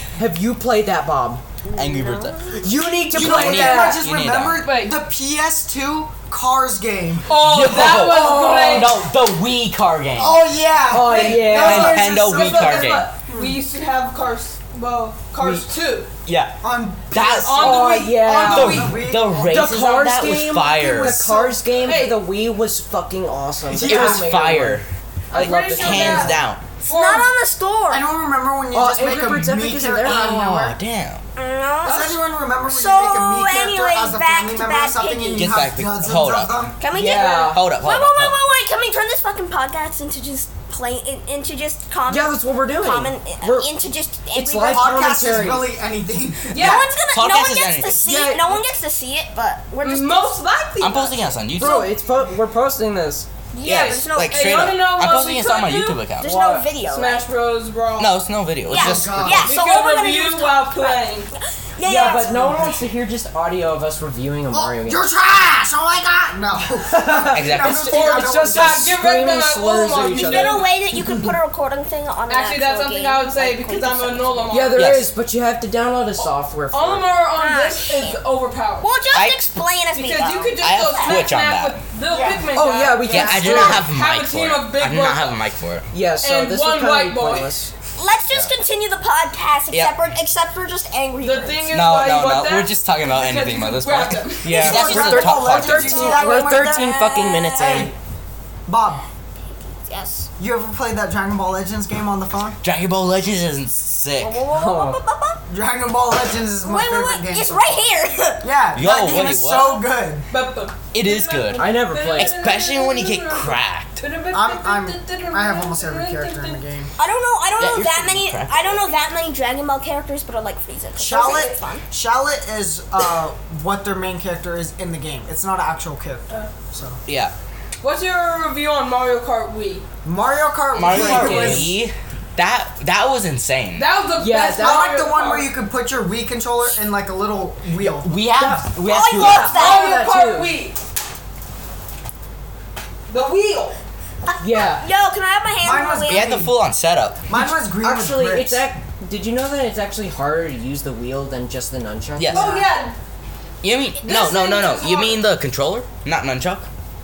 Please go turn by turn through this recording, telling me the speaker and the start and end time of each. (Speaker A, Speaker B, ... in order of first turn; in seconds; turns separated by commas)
Speaker A: 0.2-1.4, Speaker B: 1.7-2.5, Speaker C: 1.8-2.5, Speaker A: 2.5-4.0, Speaker D: 3.1-7.6, Speaker C: 3.1-4.7, Speaker E: 4.6-5.0, Speaker E: 7.3-9.0, Speaker C: 7.3-10.4, Speaker A: 7.7-9.0, Speaker D: 10.2-13.6, Speaker A: 10.9-12.1, Speaker E: 11.0-16.1, Speaker C: 11.2-13.1, Speaker C: 16.3-16.6, Speaker D: 16.6-20.2, Speaker C: 17.1-17.9, Speaker E: 17.4-19.0, Speaker A: 17.6-18.8, Speaker C: 18.5-21.4, Speaker A: 19.4-26.4, Speaker D: 20.9-21.6, Speaker E: 21.8-22.2, Speaker D: 23.7-24.3, Speaker C: 23.8-26.7, Speaker E: 25.3-27.3, Speaker B: 26.8-28.0, Speaker D: 27.9-30.8, Speaker A: 28.7-30.4, Speaker C: 30.0-31.2, Speaker B: 31.4-35.6, Speaker E: 31.8-32.2, Speaker D: 31.8-36.7, Speaker C: 35.4-36.7, Speaker B: 36.8-45.0, Speaker A: 36.9-37.6, Speaker C: 37.4-38.4, Speaker A: 42.1-43.8, Speaker A: 44.3-45.7, Speaker D: 44.7-46.8, Speaker E: 46.5-46.9, Speaker B: 46.5-50.4, Speaker C: 47.1-48.0, Speaker A: 48.0-48.5, Speaker E: 49.8-51.8, Speaker C: 50.8-51.9, Speaker A: 51.5-53.3, Speaker B: 53.5-54.8, Speaker E: 53.6-58.2, Speaker C: 53.6-56.3, Speaker B: 56.2-57.2, Speaker C: 58.0-59.5, Speaker D: 58.7-59.6, Speaker B: 58.7-62.4, Speaker E: 59.4-61.3, Speaker A: 61.8-65.0, Speaker D: 62.0-62.8, Speaker D: 64.5-68.9, Speaker A: 66.8-70.6, Speaker C: 67.3-68.0, Speaker E: 67.8-70.7, Speaker B: 70.1-74.7, Speaker D: 70.9-71.3, Speaker E: 72.3-75.0, Speaker A: 74.5-77.1, Speaker C: 74.7-75.1, Speaker E: 76.2-78.9, Speaker B: 77.3-78.2, Speaker B: 78.8-81.2, Speaker C: 79.1-79.5, Speaker E: 79.9-85.4, Speaker C: 80.6-81.8, Speaker A: 82.5-83.9, Speaker C: 83.0-85.9, Speaker A: 85.9-87.7, Speaker E: 86.2-87.5, Speaker B: 88.0-91.7, Speaker C: 88.3-88.5, Speaker C: 89.7-90.0, Speaker E: 91.2-94.6, Speaker C: 91.7-96.2, Speaker A: 94.5-97.9, Speaker D: 94.5-97.0, Speaker B: 94.5-97.9, Speaker D: 97.6-97.9, Speaker D: 98.7-99.0, Speaker B: 99.8-100.3, Speaker D: 100.4-102.6, Speaker C: 102.6-104.4, Speaker B: 104.2-105.4, Speaker A: 104.5-105.0, Speaker D: 105.5-107.8, Speaker B: 106.6-108.5, Speaker D: 108.4-110.3, Speaker C: 108.7-109.8, Speaker E: 110.3-116.6, Speaker C: 110.9-114.0, Speaker A: 111.5-112.5, Speaker D: 114.3-116.9, Speaker B: 117.0-121.8, Speaker C: 117.6-118.8, Speaker D: 121.0-127.0, Speaker C: 127.1-127.3, Speaker E: 127.8-129.8, Speaker D: 130.0-131.8, Speaker C: 130.7-133.9, Speaker A: 130.9-131.7, Speaker E: 133.8-135.5, Speaker A: 134.2-134.9, Speaker D: 134.6-138.1, Speaker C: 137.8-139.6, Speaker A: 138.4-140.6, Speaker B: 138.8-139.9, Speaker E: 139.4-140.8, Speaker E: 143.1-143.8, Speaker A: 144.4-144.9, Speaker B: 144.5-146.4, Speaker D: 145.6-146.6, Speaker C: 146.1-147.2, Speaker D: 147.3-148.6, Speaker A: 147.3-152.7, Speaker C: 152.2-152.6, Speaker E: 152.3-152.9, Speaker C: 153.6-156.7, Speaker B: 154.0-155.0, Speaker E: 154.1-155.1